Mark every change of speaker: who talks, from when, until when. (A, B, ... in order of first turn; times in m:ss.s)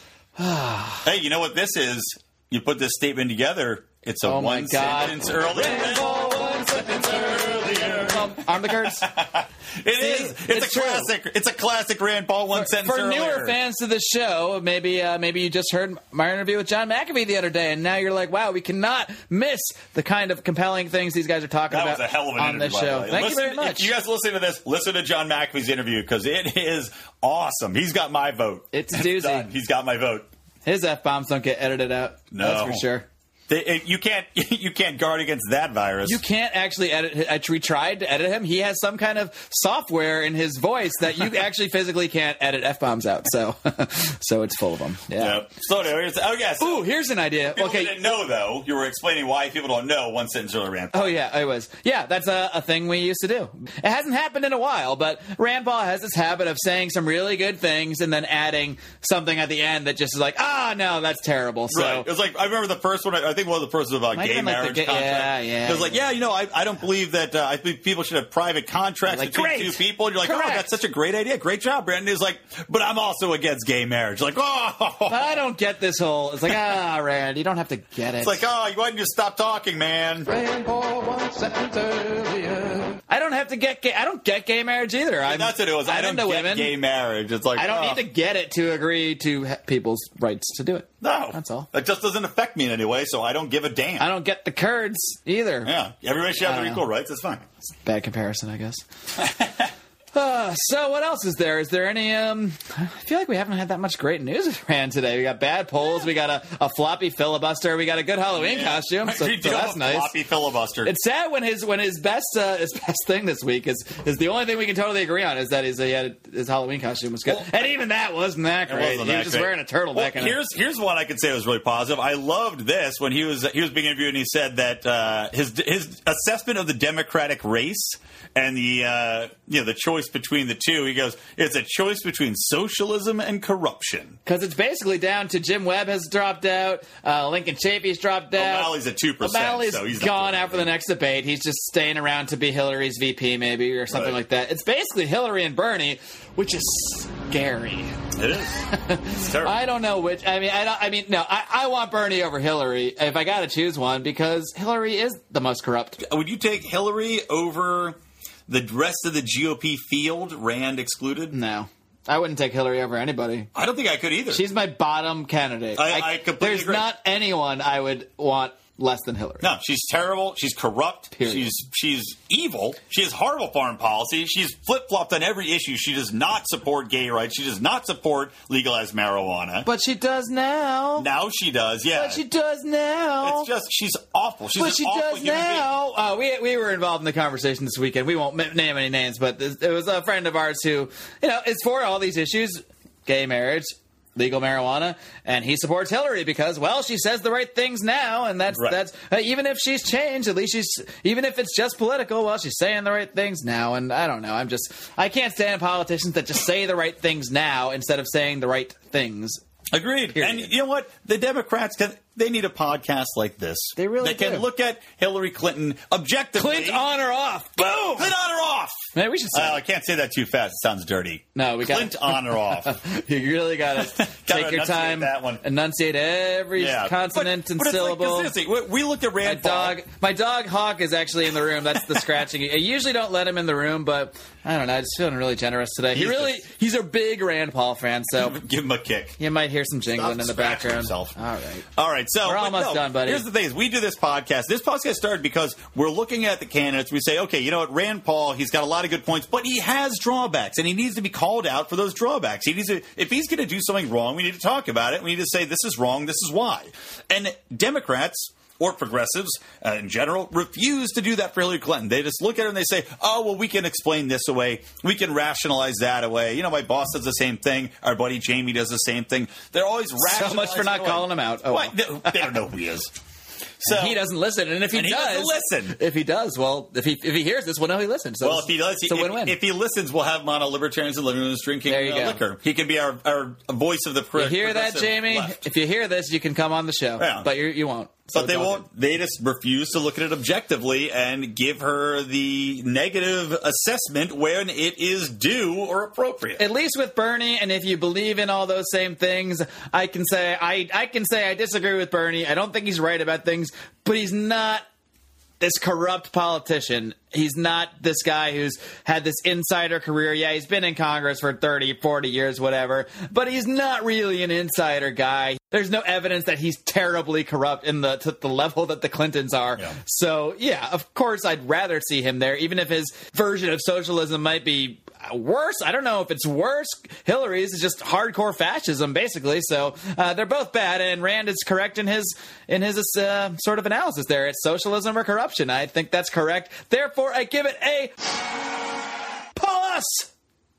0:00.4-0:01.1 A
0:01.0-0:13.6 B
0:04.2-0:09.1 A
0:10.0-0:11.1 A
0:12.5-0:23.9 A
0:21.7-0:30.3 B
0:28.7-0:29.5 A
0:30.6-0:33.1 A
0:32.3-0:32.8 B
0:33.5-0:36.2 B
0:36.0-0:45.4 A
0:45.2-0:46.9 B
0:46.6-0:48.2 A
0:47.5-0:51.1 B
0:50.9-1:02.1 A
1:01.7-1:15.4 B
1:04.1-1:06.0 A
1:09.1-1:10.7 A
1:15.1-1:18.4 A
1:18.2-1:20.3 B
1:20.3-1:23.0 C
1:23.1-1:26.7 A
1:25.2-1:28.0 B
1:27.6-1:31.7 A
1:31.0-1:34.1 B
1:34.0-1:35.7 A
1:35.6-1:37.4 B
1:36.4-1:36.8 A
1:37.7-1:38.8 A
1:39.2-1:39.7 B
1:40.1-1:50.1 A
1:48.3-1:50.9 B
1:50.8-2:00.4 A
1:57.3-1:57.7 B
1:58.7-2:14.2 B
2:14.2-2:27.9 A
2:18.4-2:20.7 B
2:23.9-2:24.2 B
2:28.2-2:29.6 B
2:28.7-2:36.0 A
2:36.0-2:41.4 B
2:41.3-2:43.5 A
2:43.5-2:44.4 B
2:44.3-2:49.4 A
2:45.8-2:46.9 B
2:49.4-2:59.7 B
2:51.1-2:51.5 A
2:59.6-3:01.1 A
3:01.0-3:02.2 B
3:01.9-3:03.5 A
3:03.2-3:05.7 B
3:04.6-3:29.4 A
3:18.5-3:18.8 B
3:29.7-3:36.8 B
3:30.1-3:30.5 A
3:33.8-3:34.5 A
3:36.4-3:38.1 A
3:38.0-3:38.8 B
3:38.9-3:39.6 A
3:39.3-3:42.8 B
3:41.4-3:48.3 A
3:43.8-3:45.4 B
3:46.6-3:49.8 B
3:49.2-3:58.4 A
3:55.9-3:56.4 B
3:58.2-3:59.2 B
3:59.2-4:01.6 A
3:59.9-4:01.2 B
4:01.7-4:32.9 B
4:02.2-4:03.2 A
4:30.0-4:32.2 A
4:33.6-4:34.0 B
4:33.7-4:39.4 A
4:34.7-4:35.8 B
4:38.2-4:45.4 B
4:41.7-4:42.2 A
4:44.2-4:48.6 A
4:47.0-4:47.3 B
4:48.1-4:56.4 B
4:56.4-5:04.6 A
5:05.4-5:37.9 A
5:39.4-5:40.1 A